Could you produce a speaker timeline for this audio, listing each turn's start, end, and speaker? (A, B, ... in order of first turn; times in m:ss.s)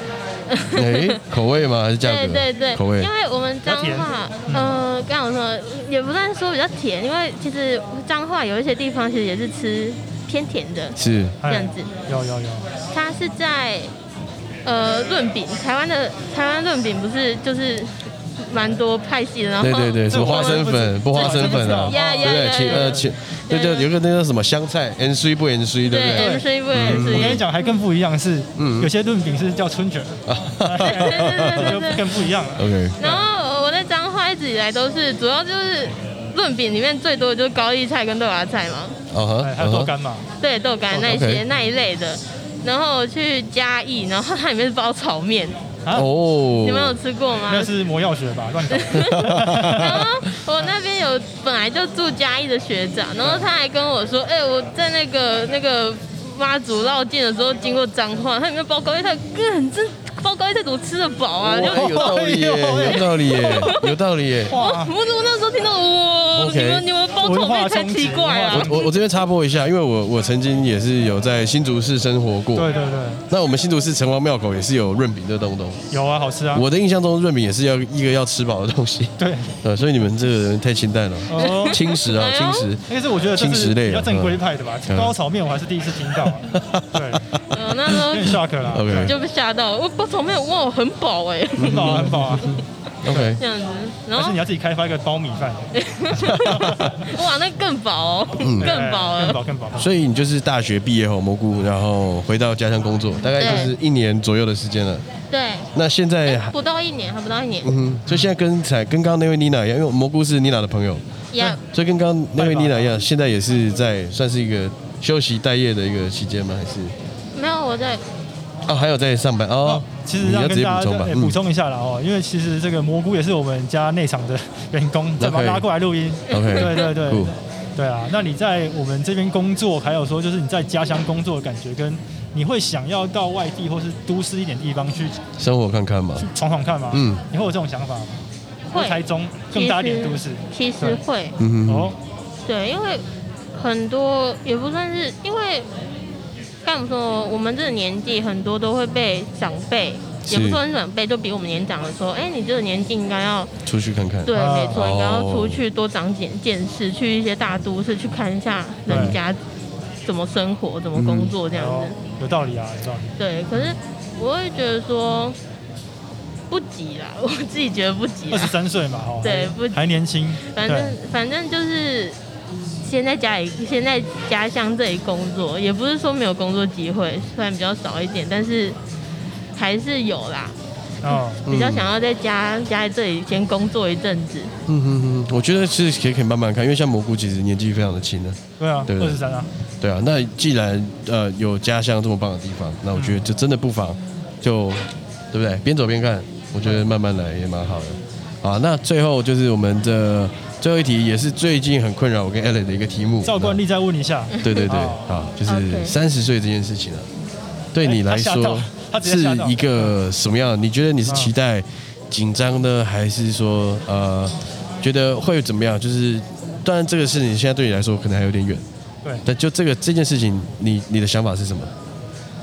0:00.5-0:01.2 A
0:00.7-0:03.1 B
0:02.0-0:11.9 A
0:03.6-0:04.7 C
0:11.0-0:11.4 B
0:11.4-0:12.7 C
0:12.9-0:13.9 A
0:14.6-0:23.9 A
0:19.6-0:27.4 B
0:20.1-0:23.1 C
0:25.9-0:27.7 A
0:26.1-0:33.3 C
0:28.6-0:28.9 B
0:30.3-0:31.8 B
0:30.8-0:32.0 A
0:32.6-0:33.0 B
0:33.0-0:39.0 A
0:39.1-0:39.9 B
0:39.4-0:40.3 C
0:40.4-0:45.6 A
0:40.9-0:41.4 B
0:45.9-0:47.0 B
0:46.6-0:47.7 A
0:47.5-0:50.0 C
0:48.7-1:02.2 A
0:48.9-0:50.1 B
0:53.2-0:53.5 C
1:01.4-1:04.5 B
1:01.7-1:03.8 C
1:02.8-1:03.9 A
1:04.5-1:04.9 C
1:04.5-1:08.9 A
1:06.3-1:06.8 B
1:07.2-1:08.8 C
1:08.5-1:12.7 B
1:12.5-1:13.2 C
1:13.3-1:15.8 B
1:15.9-1:16.6 C
1:16.5-1:25.1 B
1:19.2-1:19.5 C
1:21.3-1:21.8 C
1:21.4-1:22.7 A
1:22.9-1:27.2 C
1:26.4-1:27.4 B
1:27.5-1:28.4 A
1:27.9-1:29.1 C
1:28.7-1:29.1 B
1:29.0-1:32.5 A
1:31.6-1:32.5 B
1:31.6-1:32.6 C
1:33.0-1:33.4 B
1:33.2-1:34.4 A
1:34.1-1:37.1 C
1:35.7-1:39.4 A
1:36.3-1:36.7 B
1:38.4-1:38.7 B
1:38.6-1:39.9 C
1:39.8-1:45.0 B
1:43.4-1:43.7 A
1:45.3-1:45.7 A
1:45.7-1:46.5 B
1:46.2-1:47.7 A
1:47.6-1:51.0 B
1:51.3-1:51.6 A
1:51.6-1:56.9 B
1:52.4-1:52.9 C
1:57.3-1:58.0 A
1:58.6-2:01.4 B
1:59.6-2:15.2 C
2:05.2-2:05.6 B
2:06.3-2:07.3 B
2:06.3-2:06.8 A
2:15.4-2:16.3 B
2:16.2-2:18.2 C
2:16.9-2:17.2 B
2:18.7-2:19.0 A
2:18.7-2:21.0 C
2:19.5-2:21.4 A
2:21.4-2:21.9 B
2:21.7-2:22.0 C
2:22.4-2:25.7 A
2:26.6-2:33.5 A
2:30.3-2:30.6 B
2:33.6-2:35.6 B
2:34.2-2:39.4 A
2:34.3-2:34.8 C
2:38.9-2:39.2 C
2:38.9-2:39.2 B
2:40.0-2:42.0 A
2:40.9-2:41.3 B
2:41.5-2:43.8 C
2:43.2-2:45.4 A
2:46.5-2:48.5 A
2:48.3-2:51.0 C
2:49.2-2:49.8 A
2:50.4-2:52.2 A
2:52.8-2:58.8 A
2:59.6-3:04.5 A
3:01.0-3:01.4 C
3:01.4-3:01.9 B
3:04.7-3:09.2 B
3:08.6-3:09.5 C
3:09.8-3:23.6 B
3:12.9-3:13.2 C
3:23.2-3:25.1 C
3:24.3-3:24.7 A
3:24.4-3:27.1 B
3:25.4-3:25.9 A
3:27.7-3:38.6 B
3:27.8-3:29.9 C
3:31.1-3:31.3 C
3:39.2-3:41.7 B